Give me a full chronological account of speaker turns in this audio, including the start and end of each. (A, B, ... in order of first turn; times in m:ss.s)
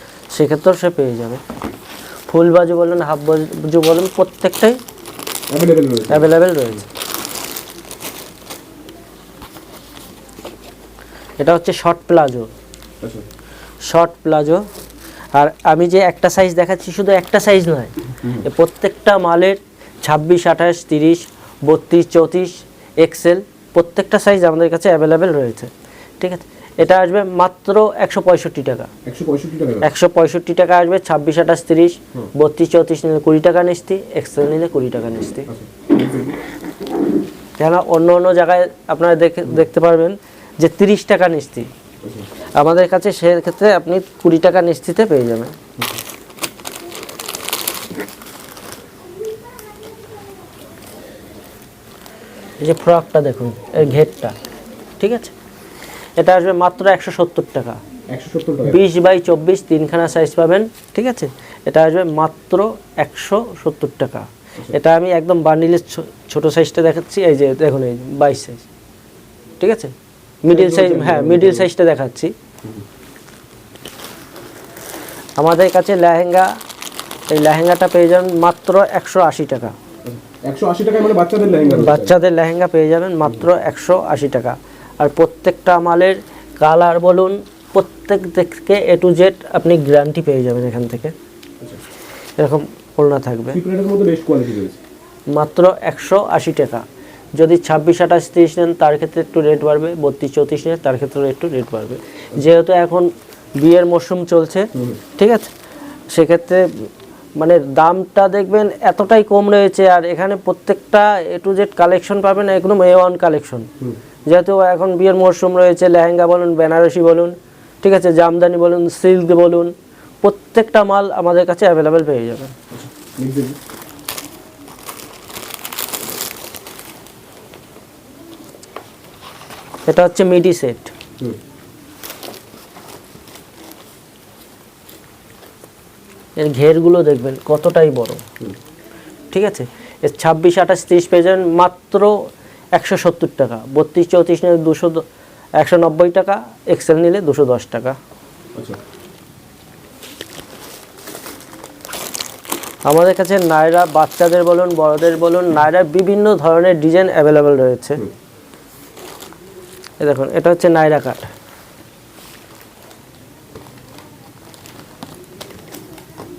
0:00.3-0:01.4 A
0:02.3-0:04.8 A
0:05.5-0:06.3 B
0:06.1-0:06.9 A
0:11.4-0:12.5 A
0:13.0-0:13.3 B
0:13.8-0:14.6 A
0:15.4-0:28.9 A
0:29.1-0:29.9 B
0:29.8-0:35.5 A
0:35.5-0:36.4 B
0:37.6-0:41.7 A
0:42.6-0:45.5 A
0:52.6-0:54.4 A
0:55.0-0:55.3 A
0:56.2-0:57.8 A
0:58.1-0:58.8 B
0:58.6-1:08.7 A
1:09.6-1:09.9 A
1:10.4-1:12.3 A
1:10.5-1:11.7 B
1:15.4-1:16.5 A
1:17.3-1:19.7 A
1:20.0-1:22.2 B
1:21.7-1:31.1 A
1:32.4-1:33.6 A
1:33.5-1:34.8 B
1:35.3-1:36.8 A
1:37.4-1:45.5 A
1:44.7-1:45.0 B
1:46.1-1:53.7 A
1:54.3-2:02.5 A
2:02.7-2:03.6 B
2:09.9-2:10.9 A
2:16.4-2:18.2 A
2:19.3-2:22.2 A
2:22.8-2:25.0 A
2:25.6-2:28.0 A
2:32.8-2:38.0 A
2:40.0-2:41.3 A